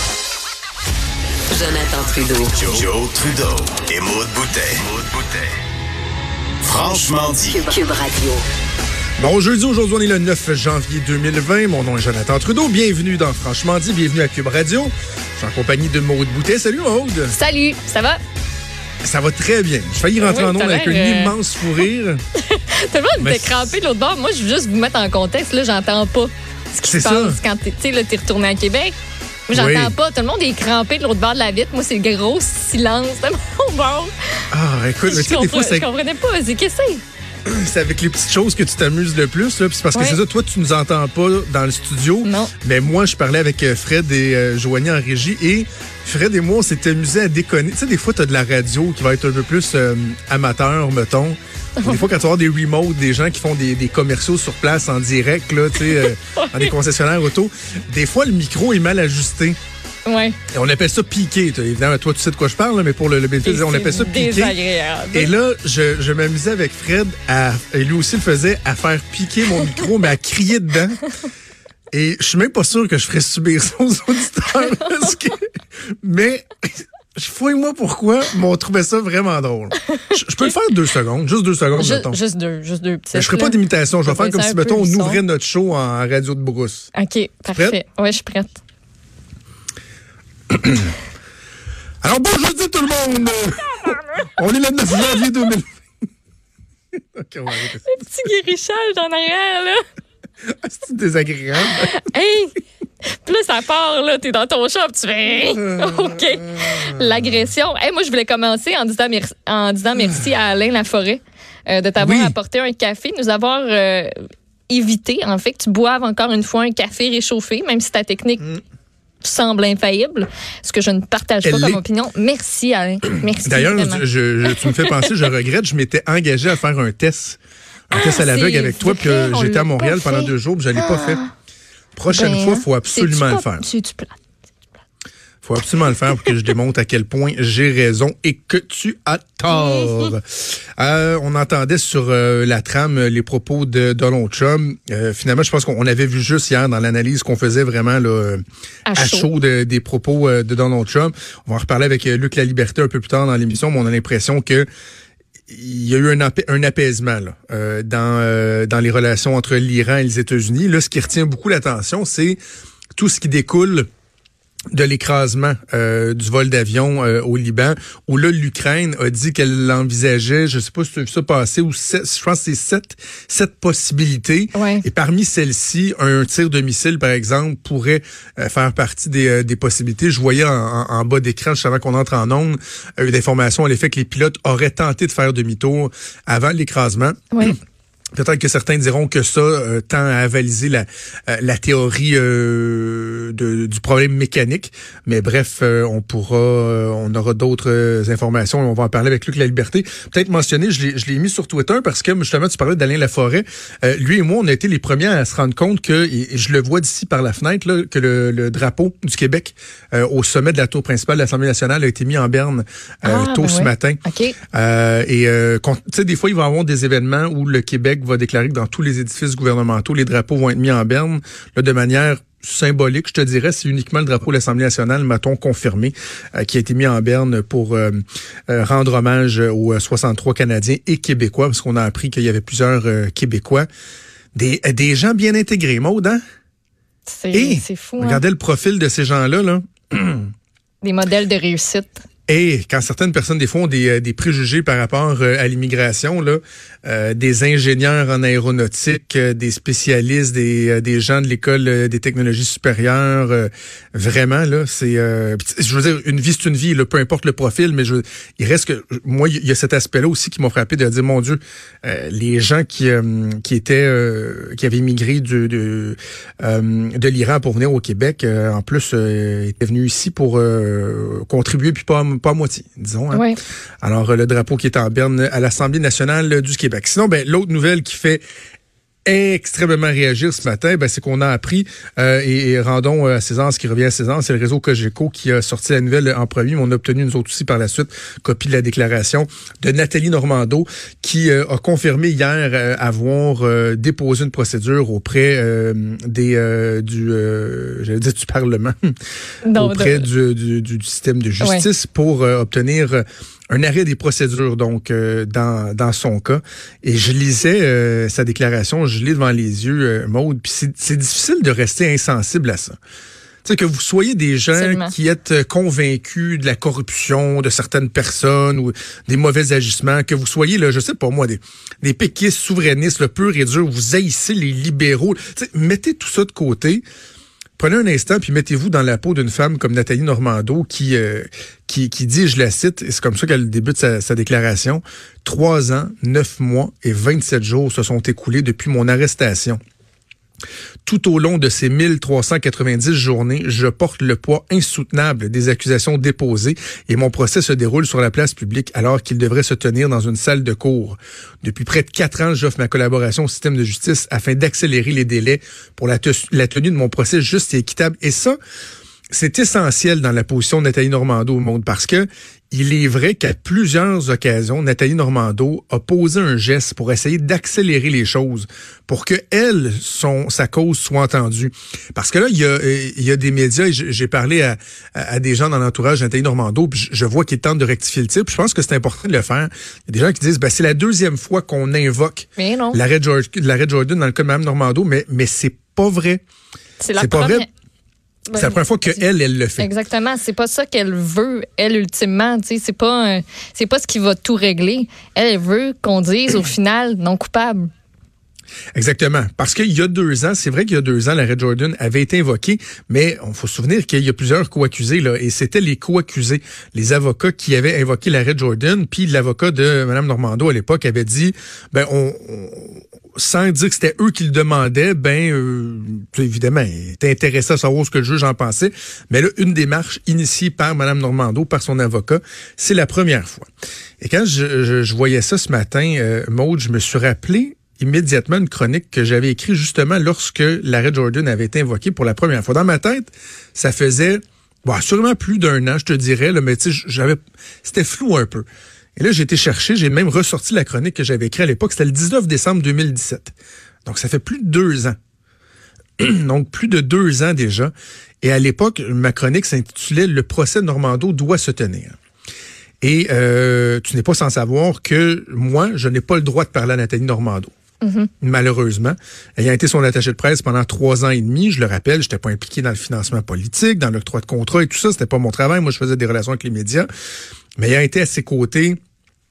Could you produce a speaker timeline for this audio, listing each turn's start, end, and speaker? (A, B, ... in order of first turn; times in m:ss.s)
0:01.5-0:02.6 A
0:02.5-0:05.5 B
0:06.6-0:07.8 B
0:07.5-0:08.4 A
0:09.2-0:17.3 C
0:17.3-0:18.2 D
0:19.0-0:22.2 C
0:20.2-0:21.4 D
0:22.4-0:28.9 D
0:23.2-0:23.7 C
0:26.8-0:27.4 C
0:29.5-0:34.1 D
0:29.5-0:29.9 C
0:34.5-0:35.9 C
0:35.0-0:37.0 D
0:37.4-0:59.6 C
0:39.9-0:40.2 D
0:42.2-0:42.5 D
0:55.8-0:56.7 D
1:00.0-1:00.4 D
1:00.5-1:04.6 C
1:03.4-1:05.3 D
1:05.1-1:11.0 C
1:11.9-1:15.4 C
1:16.0-1:22.2 C
1:21.8-1:25.2 D
1:23.1-1:26.9 C
1:26.9-1:28.6 D
1:27.5-1:27.8 C
1:30.5-1:30.9 C
1:32.0-1:35.7 C
1:37.1-1:37.9 C
1:37.9-1:39.8 D
1:40.4-1:41.9 C
1:41.7-1:54.2 D
1:45.3-1:47.3 C
1:52.0-1:52.3 C
1:54.7-1:58.6 D
1:59.2-2:05.1 D
2:01.4-2:01.8 C
2:03.4-2:07.4 C
2:07.9-2:11.2 C
2:07.9-2:11.3 D
2:12.0-2:13.6 C
2:12.1-2:14.2 D
2:15.4-2:28.4 C
2:19.5-2:20.1 D
2:28.8-2:29.3 D
2:28.9-2:34.7 C
2:35.5-2:42.4 C
2:43.0-2:43.9 C
2:44.7-3:07.5 C
2:54.5-2:54.8 D
3:08.1-3:34.0 C
3:33.0-3:34.4 D
3:34.5-3:53.7 C
3:54.3-3:56.2 C
3:57.1-3:58.2 D
3:57.3-4:00.3 C
4:00.8-4:02.0 D
4:02.3-4:33.3 C
4:33.1-4:33.4 D
4:33.8-4:38.2 C
4:39.0-4:58.9 C
4:59.4-5:00.1 D
4:59.5-5:12.7 C
5:01.4-5:01.6 D
5:13.4-5:26.8 C
5:14.5-5:14.9 D
5:27.6-5:39.6 C
5:40.8-5:58.4 C
5:59.1-6:26.2 C
6:22.4-6:22.8 D
6:26.8-6:27.4 D
6:27.0-6:27.4 C
6:28.3-6:29.0 D
6:28.3-6:29.7 C
6:29.6-6:37.7 D
6:38.7-7:03.5 C
7:04.0-7:18.4 C
7:19.0-7:23.3 C
7:23.8-7:25.0 C
7:26.0-7:31.9 C
7:32.8-7:37.5 C
7:37.8-7:38.1 D
7:38.2-7:46.9 C
7:47.6-7:48.8 C